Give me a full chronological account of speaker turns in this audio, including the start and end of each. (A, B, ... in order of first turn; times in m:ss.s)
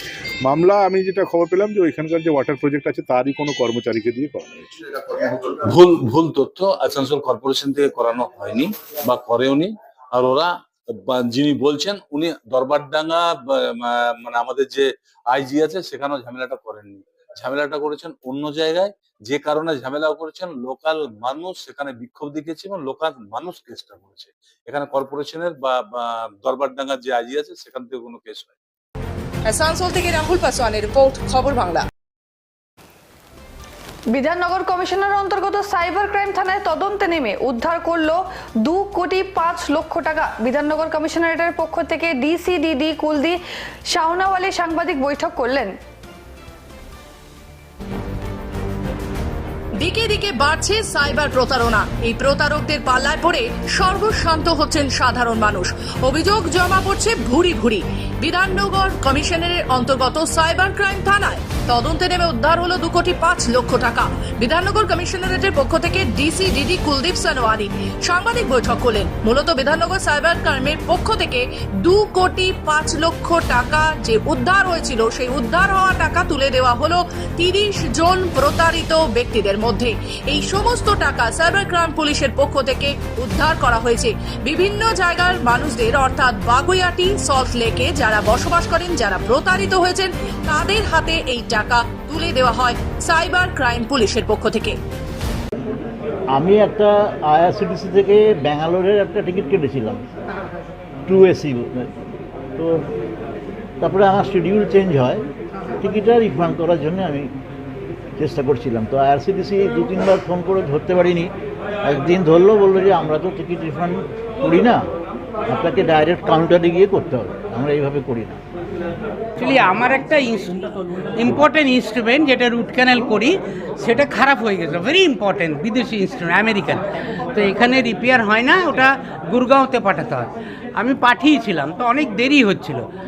0:00.4-0:04.8 A
0:05.0-0:28.5 B
0:29.4-0:31.8 C
0:34.1-0:45.7 D
0:49.8-1:34.8 C
1:36.3-1:40.0 E
1:41.1-1:41.9 E
1:42.6-1:42.8 E
1:43.8-1:45.2 E
1:45.8-1:47.3 E
1:48.2-1:51.3 E
1:51.8-1:54.8 E
1:55.5-1:58.4 E
1:59.4-2:12.9 F